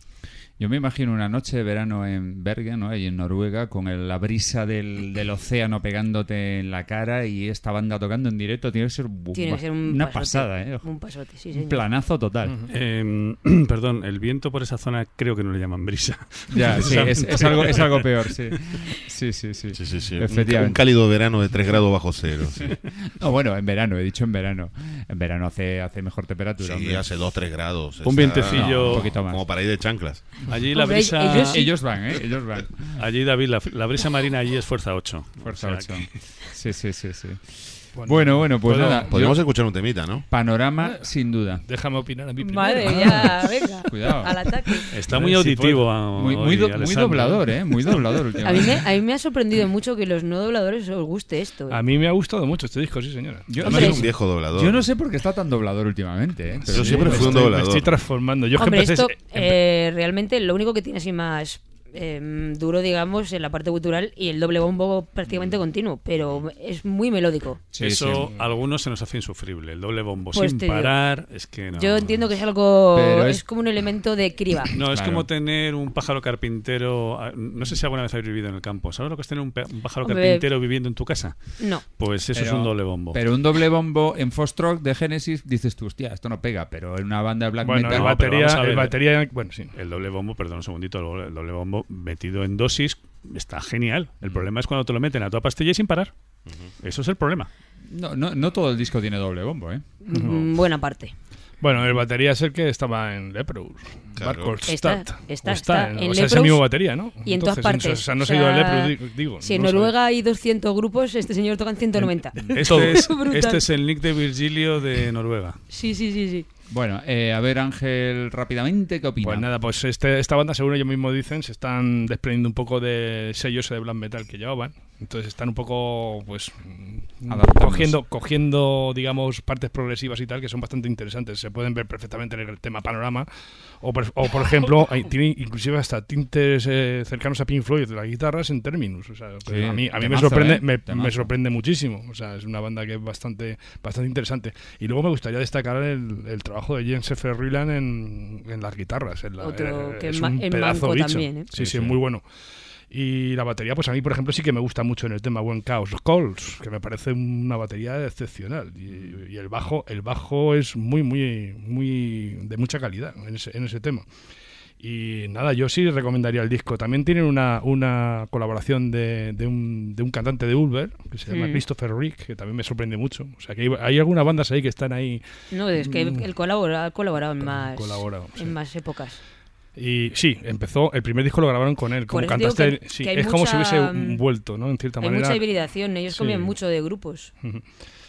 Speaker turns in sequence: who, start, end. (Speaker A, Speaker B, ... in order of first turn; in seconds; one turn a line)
Speaker A: 0.6-10.9
Speaker B: 9.3-11.8
Speaker A: 11.5-12.6
Speaker C: 12.7-18.5
Speaker A: 16.5-21.3
Speaker D: 19.7-22.8
Speaker A: 22.6-27.5
Speaker D: 26.6-30.3
Speaker C: 28.0-29.1
Speaker A: 28.4-29.4
Speaker C: 30.5-31.7
Speaker B: 30.7-31.7
Speaker A: 31.3-33.0
Speaker C: 32.9-36.1
Speaker A: 35.4-41.6
Speaker E: 37.9-39.1
Speaker D: 39.1-40.3
Speaker E: 40.8-46.1
Speaker B: 42.4-44.9
Speaker A: 42.7-44.4
Speaker C: 44.9-47.9
Speaker A: 46.0-48.8
Speaker E: 48.0-48.4
Speaker B: 48.4-51.8
Speaker E: 51.7-54.0
Speaker A: 53.5-57.5
Speaker D: 53.6-54.9
Speaker B: 53.6-54.0
Speaker E: 56.6-59.6
Speaker D: 56.7-58.0
Speaker B: 58.5-67.6
Speaker A: 67.7-68.3
Speaker C: 67.8-72.2
Speaker B: 70.3-71.1
Speaker B: 71.7-74.7
Speaker A: 72.9-73.4
Speaker C: 74.7-83.2
Speaker A: 74.9-75.3
Speaker B: 80.0-80.4
Speaker B: 81.6-81.8
Speaker A: 82.3-88.3
Speaker E: 87.6-89.7
Speaker C: 87.9-89.0
Speaker C: 89.7-96.1
Speaker D: 96.5-96.7
Speaker C: 96.8-97.5
Speaker A: 97.9-99.8
Speaker B: 100.0-101.1
Speaker E: 100.1-100.5
Speaker E: 101.6-109.9
Speaker D: 104.2-104.6
Speaker B: 104.7-113.6
Speaker E: 112.0-113.1
Speaker A: 112.3-112.6
Speaker C: 112.5-115.6
Speaker B: 115.7-116.5
Speaker A: 116.7-119.5
Speaker E: 119.2-133.3
Speaker A: 127.3-128.0
Speaker E: 133.8-152.2
Speaker A: 139.5-141.3
Speaker B: 149.4-151.5
Speaker E: 152.9-164.1
Speaker E: 164.8-176.3
Speaker B: 171.3-171.6
Speaker B: 175.5-179.2
Speaker E: 177.4-178.6
Speaker E: 179.7-186.6
Speaker B: 182.1-184.2
Speaker B: 185.0-187.3
Speaker E: 187.4-187.8